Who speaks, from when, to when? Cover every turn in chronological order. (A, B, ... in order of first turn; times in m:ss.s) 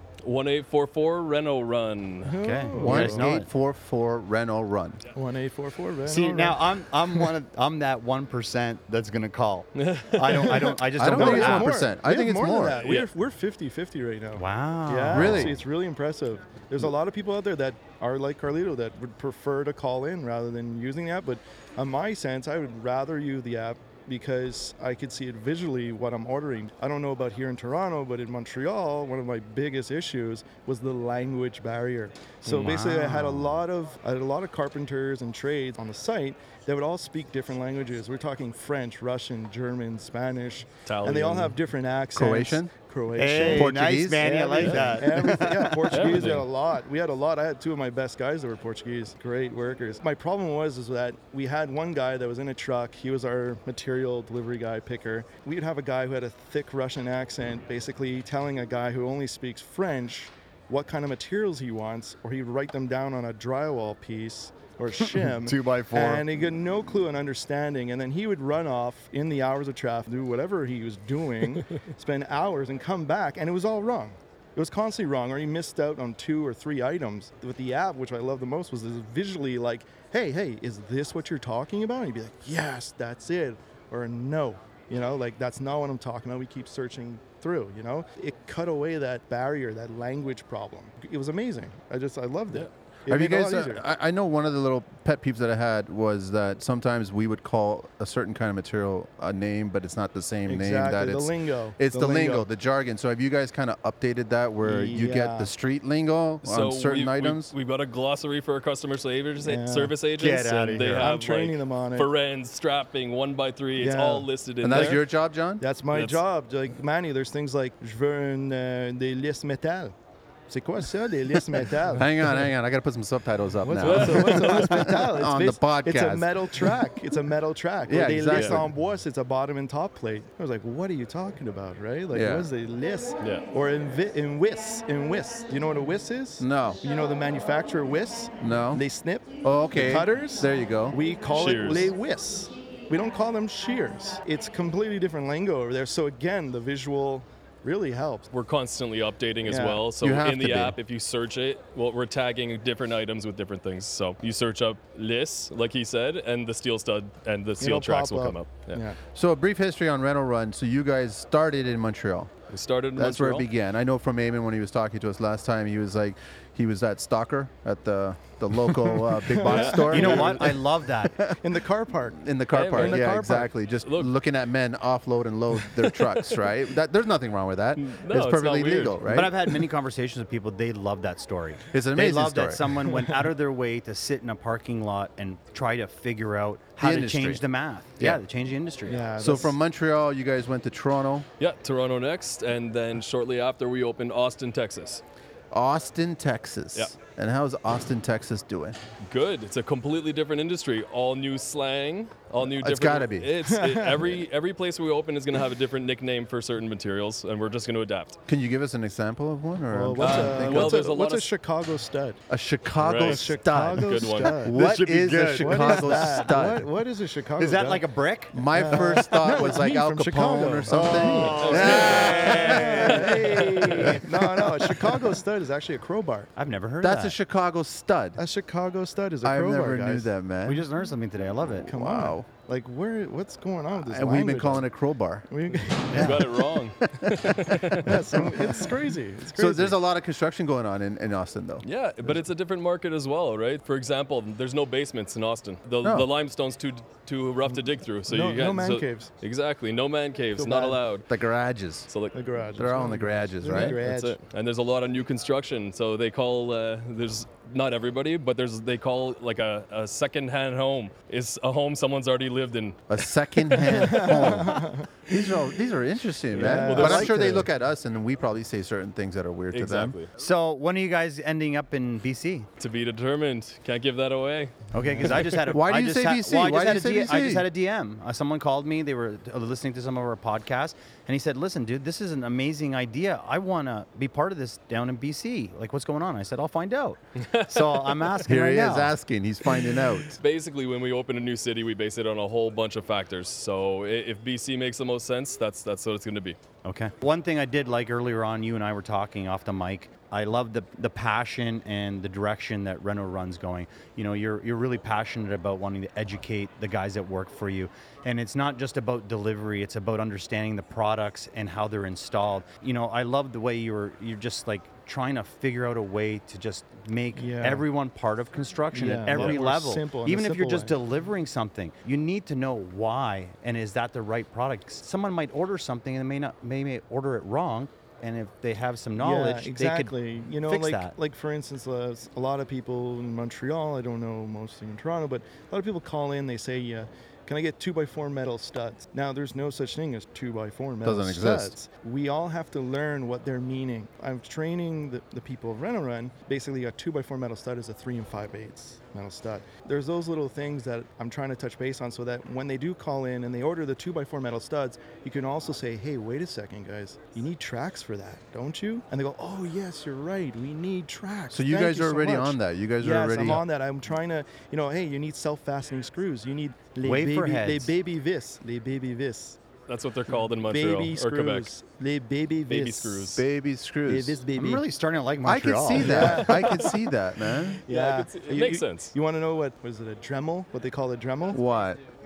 0:00.2-0:02.3 A
0:02.2-0:03.4 B
0:02.4-0:03.5 C
0:02.8-0:05.0 D
0:05.1-0:06.8 B
0:06.0-0:11.8 C
0:09.8-0:10.6 A
0:10.2-1:33.8 B
0:10.9-0:12.8 D
0:12.8-0:13.1 A
0:14.4-0:15.5 C
0:15.1-0:15.6 D
0:32.5-0:33.6 C
0:40.8-0:41.5 A
0:42.1-0:42.7 D
0:43.1-0:46.2 C
0:43.4-0:44.3 D
0:44.6-0:44.9 A
0:45.9-0:46.4 A
1:05.1-1:06.5 C
1:33.1-1:47.5 D
1:40.5-1:42.5 B
1:44.6-1:45.5 B
1:46.4-1:55.0 A
1:49.4-1:49.9 B
1:50.2-1:51.1 C
1:50.8-1:52.1 B
1:53.8-1:55.0 B
1:54.6-1:55.6 D
1:55.6-1:59.9 B
1:55.9-1:56.2 A
2:00.5-2:02.1 B
2:01.9-2:06.7 D
2:03.6-2:28.3 B
2:03.8-2:04.9 A
2:07.8-2:08.7 D
2:08.3-2:08.6 A
2:12.1-2:12.5 D
2:13.2-2:13.4 A
2:16.4-2:16.8 D
2:18.4-2:18.8 D
2:19.4-2:21.0 D
2:21.3-2:21.9 A
2:28.3-2:38.8 A
2:29.4-2:29.8 B
2:30.0-2:30.8 D
2:37.6-2:39.0 B
2:39.1-2:42.3 D
2:42.5-2:43.5 A
2:42.9-2:50.4 D
2:49.2-2:50.6 B
2:49.5-2:50.4 A
2:49.5-2:51.2 C
2:51.0-2:51.4 D
2:51.4-2:53.5 B
2:52.2-2:59.3 D
2:52.5-2:53.1 A
2:53.8-2:54.1 A
2:55.8-2:56.4 A
2:57.8-2:59.5 A
2:59.1-3:09.0 C
3:01.7-3:02.7 D
3:06.8-3:07.4 D
3:08.9-3:09.6 B
3:09.2-3:11.3 D
3:11.4-3:15.0 A
3:15.5-3:18.8 D
3:19.0-3:28.2 A
3:22.4-3:23.3 D
3:23.4-3:24.2 B
3:28.3-3:30.9 D
3:29.7-3:32.2 B
3:30.0-3:31.3 A
3:32.3-3:36.7 D
3:32.8-3:34.3 A
3:33.0-3:34.6 B
3:34.5-3:36.2 C
3:35.3-3:37.8 B
3:37.4-3:39.1 C
3:38.3-3:44.0 D
3:38.5-3:46.3 B
3:40.6-3:44.5 C
3:41.2-3:42.4 A
3:46.4-3:47.2 C
3:46.8-3:48.2 D
3:48.2-3:50.1 B
3:49.2-3:50.6 D
3:50.4-3:51.7 C
3:51.6-3:54.7 B
3:51.7-3:52.3 D
3:53.8-3:55.3 D
3:55.3-3:56.4 B
3:55.9-3:56.2 D
3:55.9-3:57.9 A
3:57.8-3:59.8 B
3:59.3-4:01.6 D
4:01.6-4:11.1 A
4:05.8-4:06.1 D
4:08.1-4:09.1 B
4:10.4-4:10.8 B
4:11.1-4:11.9 D
4:11.9-4:12.1 A
4:12.1-4:14.2 B
4:12.5-4:13.8 D
4:13.5-4:24.2 A
4:22.9-4:30.0 D
4:23.7-4:24.8 B
4:26.3-4:27.5 B
4:26.4-4:27.2 A
4:29.5-4:30.1 A
4:30.2-4:32.5 C
4:32.6-4:34.6 A
4:34.7-4:48.9 C
4:34.8-4:35.1 B
4:35.4-4:37.5 D
4:47.2-4:48.1 A
4:48.2-4:50.2 D
4:50.1-4:56.4 A
4:56.6-5:30.9 C
5:17.2-5:17.6 B
5:18.7-5:20.7 B
5:29.0-6:09.4 B
5:40.8-5:41.5 D
6:01.3-6:03.4 D
6:06.8-6:07.7 C
6:09.7-6:11.5 A
6:10.4-6:13.2 B
6:12.5-6:13.2 A
6:13.1-6:14.2 D
6:13.9-6:14.6 B
6:14.3-6:16.6 C
6:15.2-6:17.6 D
6:15.7-6:16.7 B
6:17.6-6:21.4 B
6:17.7-6:18.9 A
6:21.3-6:21.8 D